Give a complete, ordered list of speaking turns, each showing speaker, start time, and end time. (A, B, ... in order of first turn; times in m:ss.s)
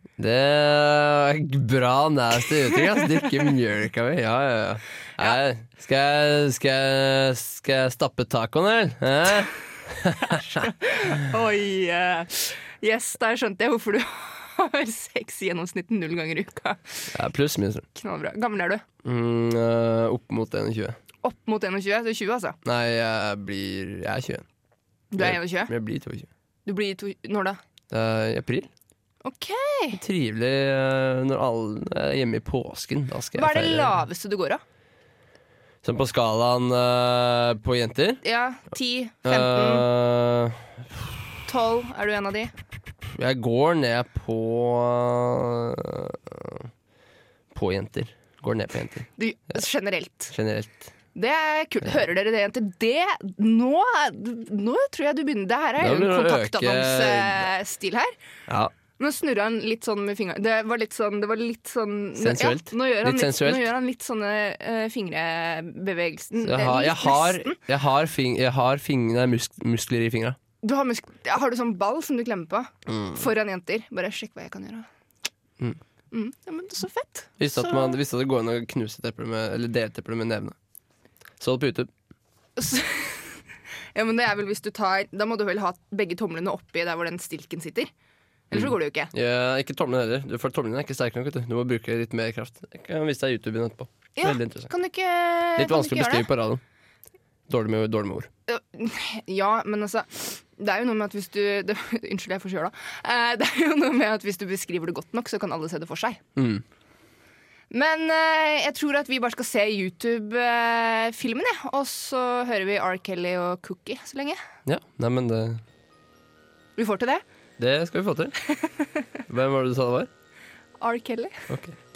0:00.2-0:10.7 A
0:10.6-0:17.1 B
0:17.1-0:17.8 A
0:17.9-0:18.8 B
0:19.0-0:21.0 A
0:21.2-0:22.6 B
0:22.6-0:24.4 A
0:25.1-0:25.7 B
0:25.2-0:26.3 A
0:26.6-0:27.6 B
0:27.9-0:28.7 A
0:29.2-0:30.0 B
0:29.9-0:34.0 A
0:33.3-0:34.6 B
0:35.8-0:38.2 A
0:38.2-0:39.9 B
0:39.2-0:41.2 A
0:41.4-0:42.5 B
0:43.0-0:46.7 A
0:47.5-0:49.1 A
0:49.2-0:50.3 B
0:50.3-0:50.8 A
0:51.1-0:58.1 B
0:55.8-0:57.5 A
0:59.0-1:07.6 B
1:02.2-1:03.7 A
1:06.4-1:10.4 A
1:10.6-1:14.9 B
1:12.9-1:13.2 A
1:16.1-1:18.0 B
1:17.4-1:20.6 A
1:21.4-1:21.9 A
1:22.6-1:23.3 B
1:23.9-1:27.9 B
1:28.5-1:29.1 B
1:28.5-1:34.7 A
1:34.2-1:36.3 B
1:35.6-1:36.6 A
1:37.5-1:38.3 A
1:38.5-1:46.2 B
1:46.4-1:46.6 A
1:47.7-1:54.4 B
1:54.6-1:55.6 A
1:56.8-1:57.2 B
1:57.6-1:58.3 A
1:58.5-1:59.0 B
1:59.3-2:00.1 A
2:00.8-2:01.4 B
2:01.5-2:01.8 A